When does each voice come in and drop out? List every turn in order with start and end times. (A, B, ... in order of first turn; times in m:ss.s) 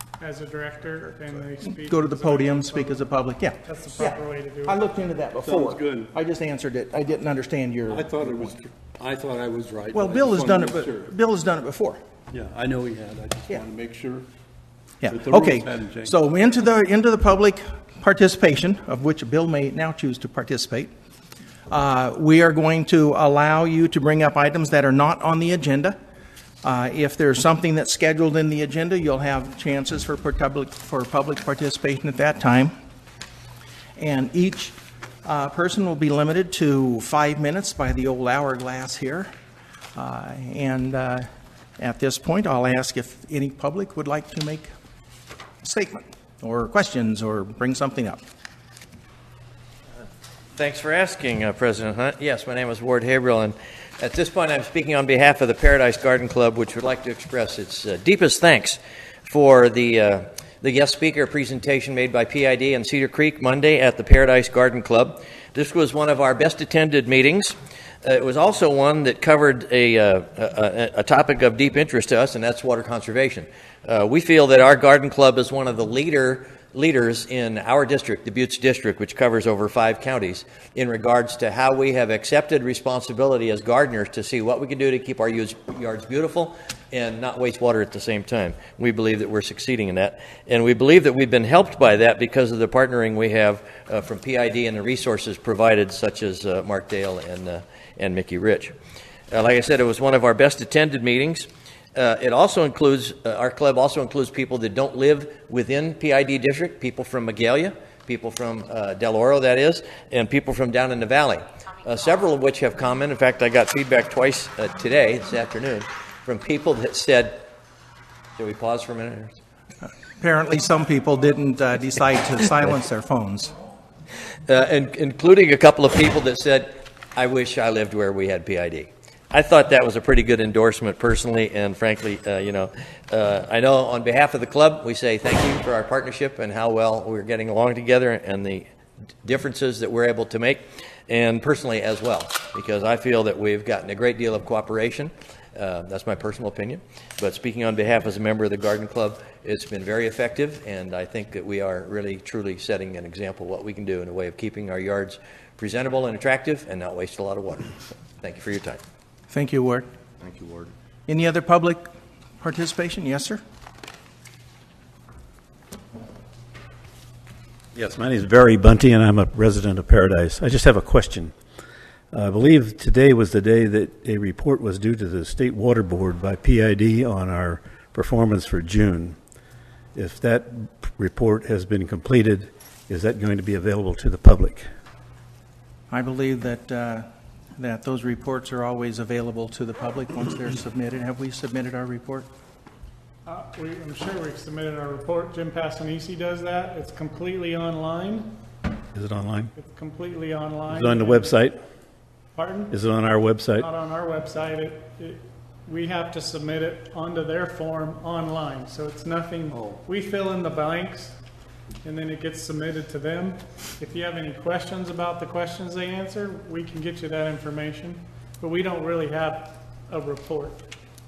0:00.2-0:03.1 A
0:01.6-0:08.5 B
0:03.6-0:04.8 A
0:05.4-0:06.1 C
0:07.9-0:11.1 C
0:09.9-0:12.0 B
0:12.3-0:14.3 C
0:15.0-0:20.9 B
0:15.1-0:16.1 C
0:21.7-0:26.0 B
0:26.6-0:32.7 B
0:34.0-0:39.3 B
0:39.9-0:41.3 B
0:41.8-0:44.7 B
0:45.6-0:48.2 B
0:50.6-1:38.7 D
1:39.3-1:57.5 D
1:58.4-1:59.4 D
2:00.2-2:03.5 B
2:04.5-2:18.7 D
2:19.2-2:38.8 D
2:39.3-2:39.9 B
2:40.2-2:40.7 D
2:41.1-2:41.8 B
2:42.4-2:43.4 B
2:47.7-2:51.3 E
2:52.1-2:59.2 E
2:59.9-3:04.7 E
3:05.9-3:07.0 B
3:07.6-3:12.3 B
3:13.2-3:18.3 A
3:18.9-3:19.5 E
3:19.6-3:21.4 A
3:20.7-3:21.6 E
3:22.3-3:22.7 A
3:22.7-3:23.7 E
3:23.6-3:31.2 A
3:31.8-3:40.7 A